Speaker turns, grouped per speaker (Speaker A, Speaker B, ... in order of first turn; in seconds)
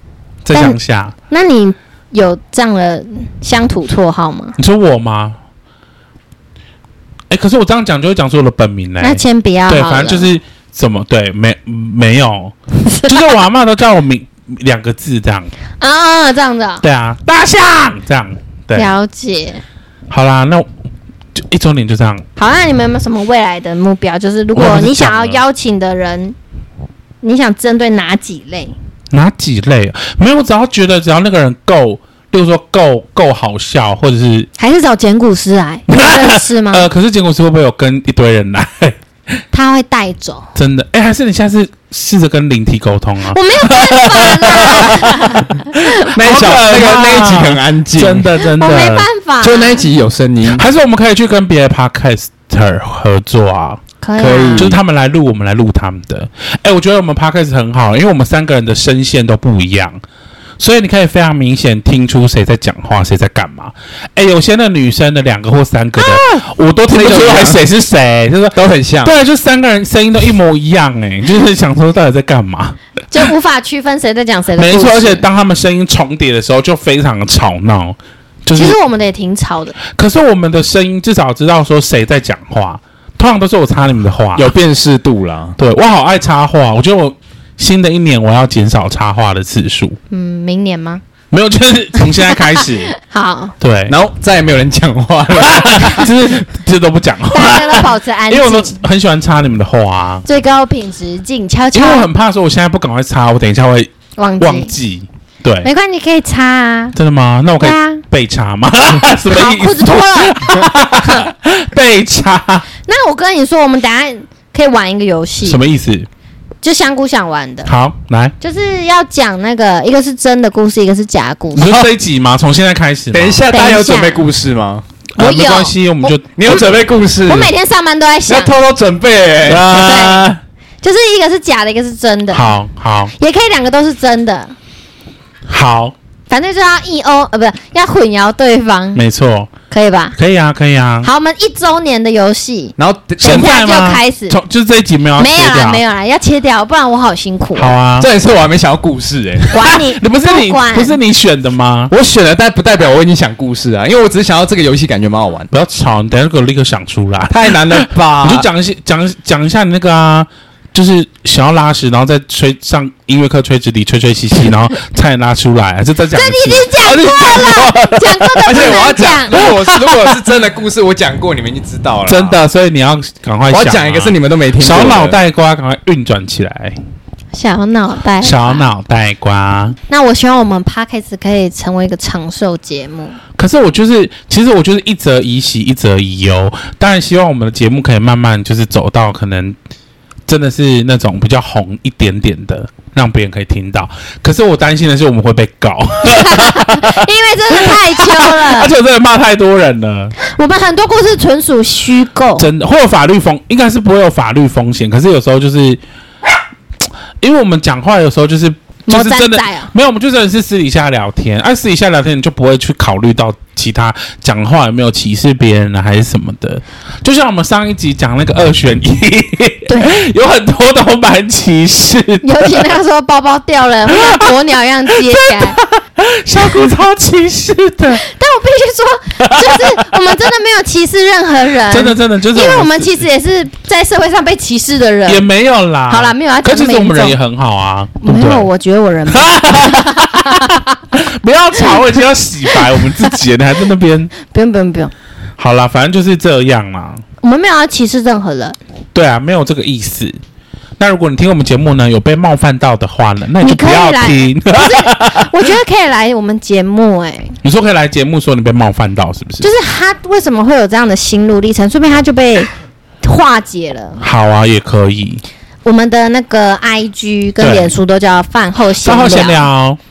Speaker A: 0.4-1.1, 4.6-5.4, 7.3-15.5, 16.8-18.9, 20.1-20.7, 21.4-22.2, 24.5-25.4, 29.1-34.5, 35.9-39.0, 40.5-49.1, 50.5-53.8, 54.6-60.0, 60.6-72.8, 74.6-78.8, 79.8-84.5, 85.6-90.0, 91.3-92.9, 93.6-94.0, 95.4-100.2, 101.7-105.7, 106.9-112.7, 115.4-116.1, 117.7-118.3, 121.5-123.4, 125.2-126.9, 129.4-130.4, 132.3-133.1, 135.5-135.9, 138.9-139.5, 140.2-141.1, 143.2-145.8, 147.6-148.1, 149.5-151.9, 155.5-168.8, 172.1-176.8, 178.2-179.8, 183.4-189.6, 190.3-200.1, 202.4-205.8, 207.2-222.7, 223.9-224.3, 224.9-228.0, 229.2-230.1, 231.7-233.1, 235.1-238.5, 239.1-244.1, 245.4-247.0, 248.9-250.2, 250.8-255.4, 257.4-259.5, 264.0-265.2, 267.4-267.7, 268.8-269.8
Speaker B: 0.5-0.8, 1.3-4.6, 9.0-10.3, 15.8-16.9, 18.7-19.6, 22.4-26.4, 27.2-28.7, 34.6-36.9, 39.5-40.5, 43.3-46.1, 48.4-49.9, 54.0-54.8, 73.1-75.2, 78.5-79.8, 90.1-91.0, 92.2-93.5, 97.3-98.8, 100.2-102.1, 104.2-104.7, 105.6-107.0, 107.6-108.0, 109.3-111.3, 112.9-115.6, 116.6-117.7, 118.4-121.7, 123.5-124.3, 125.2-126.2, 127.2-128.5, 129.7-130.3, 130.8-132.5, 133.2-134.6, 136.3-139.0, 139.7-140.2, 141.0-144.4, 145.2-147.7, 149.5-151.0, 166.1-170.0, 177.3-178.6, 179.9-183.2, 196.0-198.7, 200.2-202.5, 208.9-209.7, 219.7-220.0, 222.2-225.6, 228.0-235.3, 235.9-237.2, 238.0-240.7, 244.2-244.9, 247.2-248.6, 253.4-257.4, 259.4-262.5, 263.0-264.0, 265.6-269.5
Speaker C: 46.1-48.3, 49.4-50.6, 54.2-54.8, 66.9-67.6, 68.5-69.1, 84.4-85.6, 93.9-96.1, 123.1-124.8, 126.4-127.5, 128.3-129.7, 142.8-143.5, 148.0-149.5, 151.9-155.5, 157.3-158.5, 168.4-172.4, 173.5-175.2